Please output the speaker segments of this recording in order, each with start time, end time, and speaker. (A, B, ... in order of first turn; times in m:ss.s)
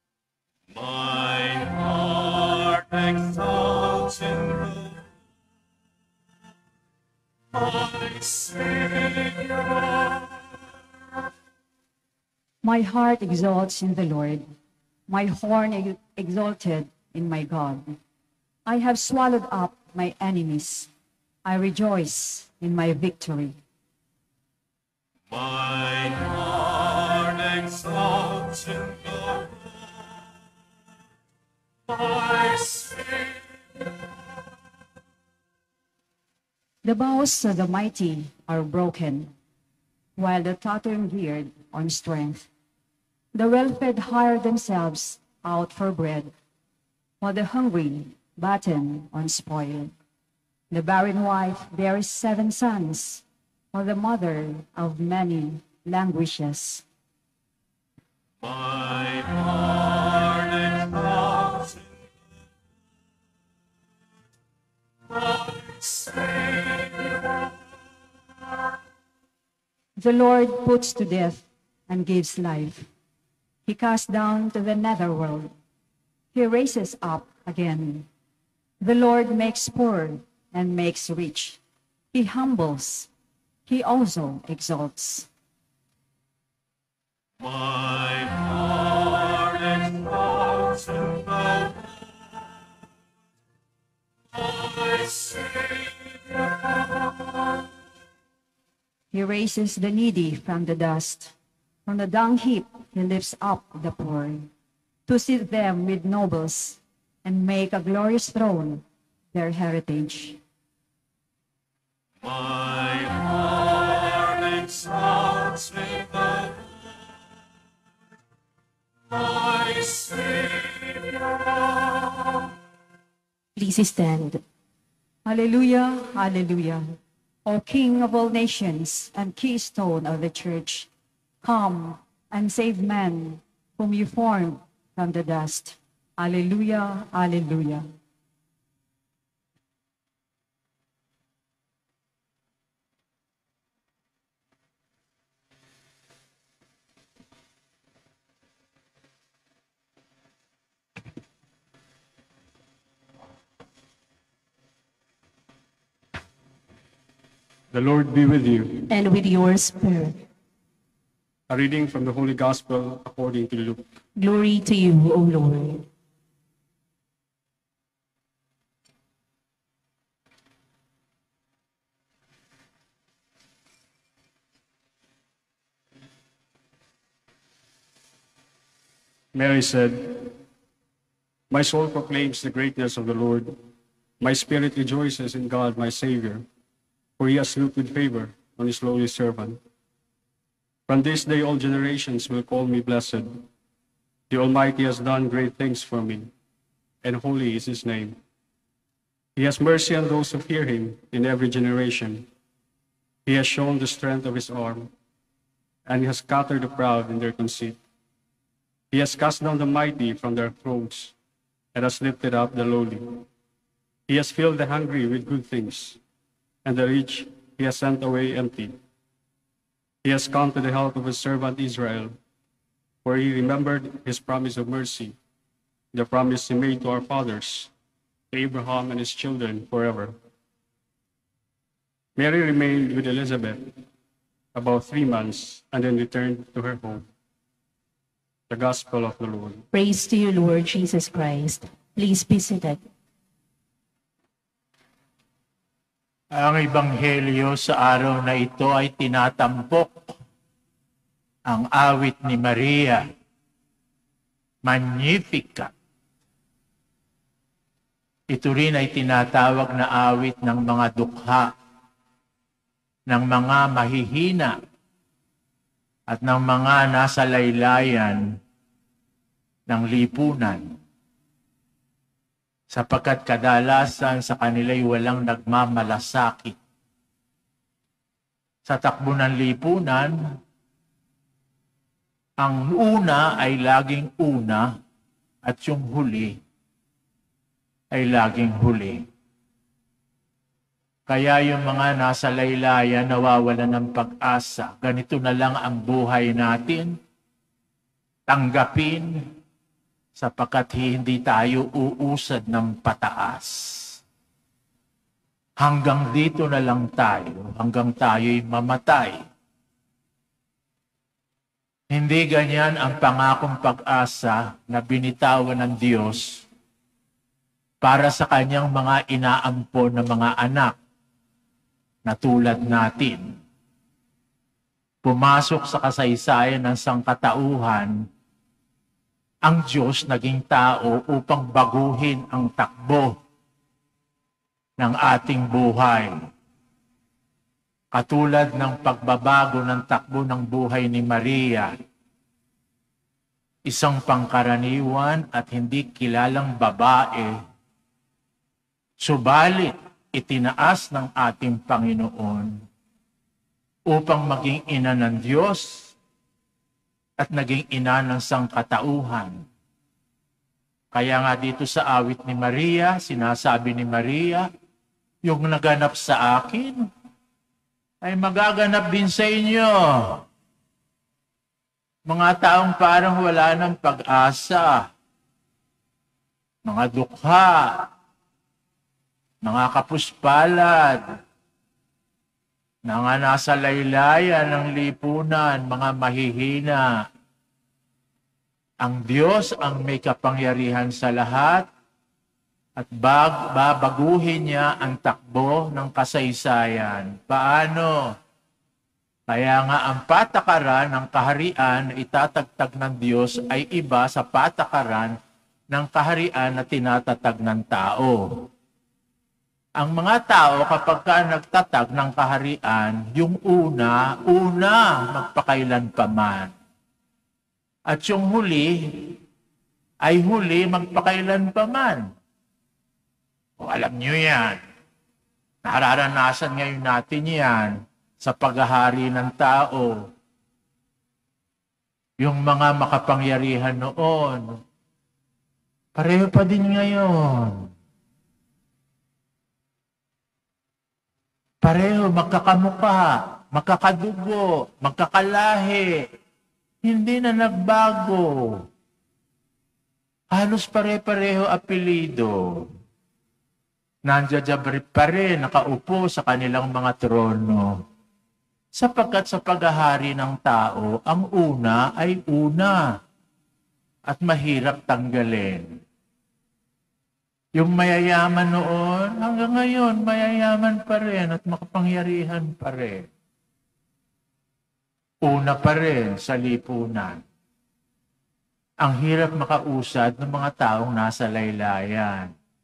0:00.7-0:05.1 A
0:07.5-0:10.7 A
0:12.6-0:14.4 B
0:15.1-0:18.0 B
0:18.6-0:20.9 B
0:21.4-0:23.6 B
0:25.3-0:30.4 A
0:31.9-0:34.0 A
0:36.8-0:39.3 B
0:40.2-0:42.5 B
0:43.3-0:46.3 B
0:47.2-0:49.9 B
0:50.7-0:56.8 B
0:58.4-1:02.1 A
1:05.1-1:07.5 A
1:10.0-1:12.9 B
1:13.6-1:15.5 B
1:16.3-1:18.1 B
1:18.8-1:21.6 B
1:22.1-1:23.1 B
1:23.6-1:25.3 B
1:27.4-1:32.5 A
1:34.3-1:37.6 A
1:39.1-1:41.3 B
1:41.8-1:44.5 B
1:45.1-1:50.4 B
1:52.2-1:56.9 A
1:59.1-2:02.5 A
2:03.6-2:04.4 C
2:05.2-2:06.9 B
2:07.4-2:10.9 B
2:11.4-2:17.9 B
2:37.7-2:38.8 D
2:38.9-2:40.2 C
2:41.5-2:43.8 D
2:44.2-2:45.9 C
2:59.3-3:00.4 D
3:01.5-3:03.6 D
3:04.2-3:06.4 D
3:07.2-3:09.6 D
3:10.9-3:13.5 D
3:14.3-3:16.3 D
3:17.0-3:18.2 D
3:19.4-3:22.3 D
3:23.2-3:24.9 D
3:25.8-3:27.8 D
3:28.9-3:31.1 D
3:31.7-3:33.2 D
3:34.1-3:36.0 D
3:36.6-3:38.8 D
3:40.0-3:42.2 D
3:43.0-3:45.2 D
3:45.9-3:47.7 D
3:48.3-3:50.1 D
3:52.2-3:53.8 D
3:54.5-3:57.1 D
3:58.5-3:59.6 D
3:59.7-4:02.8 C
4:06.3-4:10.1 E
4:11.4-4:13.0 E
4:14.6-4:15.7 E
4:18.3-4:21.5 E
4:23.1-4:24.6 E
4:26.1-4:28.4 E
4:29.7-4:30.6 E
4:32.7-4:36.6 E
4:38.6-4:40.2 E
4:42.4-4:44.7 E
4:45.4-4:46.4 E
4:47.9-4:49.0 E
4:51.1-4:56.9 E
4:58.3-4:59.2 E
5:00.2-5:04.0 E
5:05.6-5:09.2 E
5:11.9-5:16.4 E
5:17.8-5:20.7 E
5:22.0-5:23.3 E
5:25.0-5:27.9 E
5:29.4-5:33.2 E
5:34.8-5:36.1 E
5:37.9-5:41.7 E
5:43.6-5:47.4 E
5:49.0-5:52.6 E
5:53.9-5:55.9 E
5:57.2-5:59.4 E
6:00.9-6:04.5 E
6:05.2-6:06.8 E
6:08.0-6:10.2 E
6:12.1-6:14.9 E
6:16.6-6:17.9 E
6:19.4-6:21.0 E
6:22.8-6:26.8 E
6:28.8-6:31.6 E
6:32.8-6:38.1 E
6:39.3-6:45.1 E
6:45.7-6:48.5 E
6:49.8-6:56.5 E
6:57.9-6:59.2 E
7:00.0-7:02.1 E
7:03.6-7:04.6 E
7:05.6-7:10.1 E
7:12.2-7:14.5 E
7:16.0-7:17.7 E
7:21.6-7:26.0 E
7:26.8-7:28.6 E
7:30.3-7:32.6 E
7:34.1-7:37.8 E
7:38.7-7:42.8 E
7:44.1-7:45.7 E
7:47.6-7:53.1 E
7:55.2-7:57.2 E
7:58.8-8:02.3 E